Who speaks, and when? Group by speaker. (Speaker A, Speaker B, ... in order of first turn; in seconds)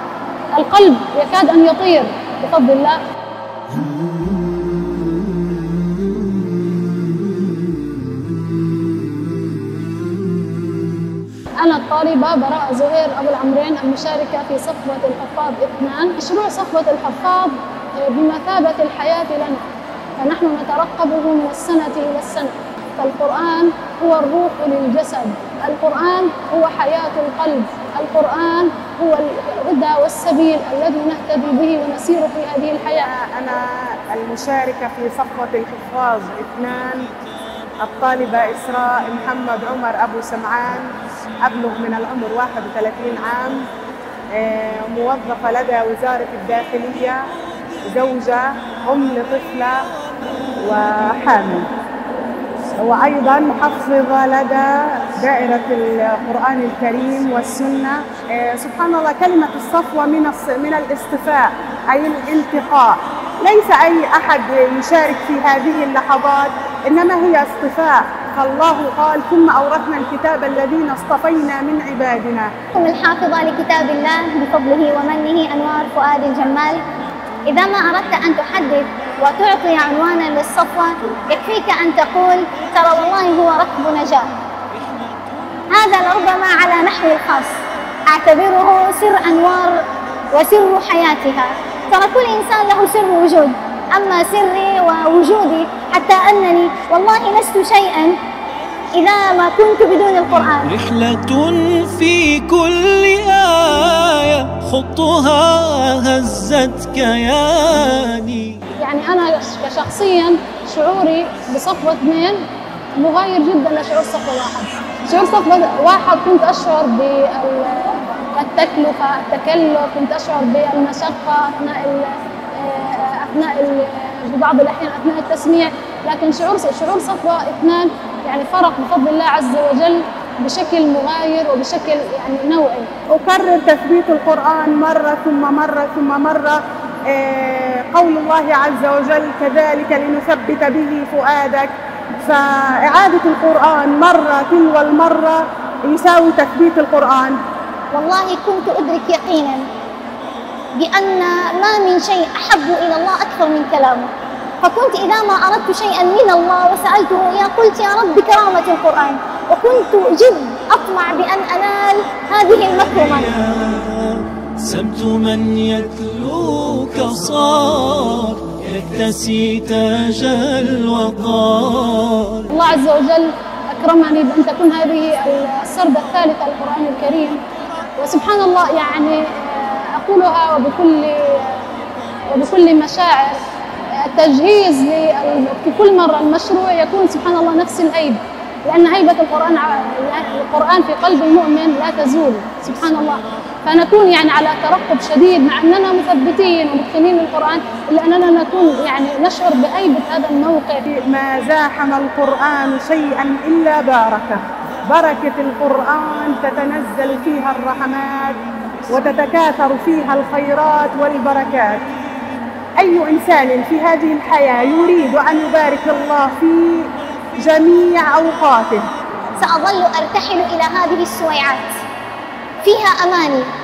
Speaker A: 0.6-3.0, 11.6-19.6, 20.2-33.1, 108.8-112.4, 113.0-132.9, 172.5-177.4, 177.9-181.7, 182.3-200.8
Speaker B: 32.9-37.1, 37.8-43.7, 44.3-47.3, 47.8-49.9, 50.6-51.7, 52.8-72.5, 133.1-147.4, 200.9-211.8, 212.8-218.9
Speaker C: 72.8-76.8, 77.5-84.4, 85.7-98.2, 98.9-100.7, 147.9-149.7, 150.7-154.1, 154.6-163.3, 219.3-221.8, 222.6-223.5
Speaker D: 100.7-108.6, 162.7-172.5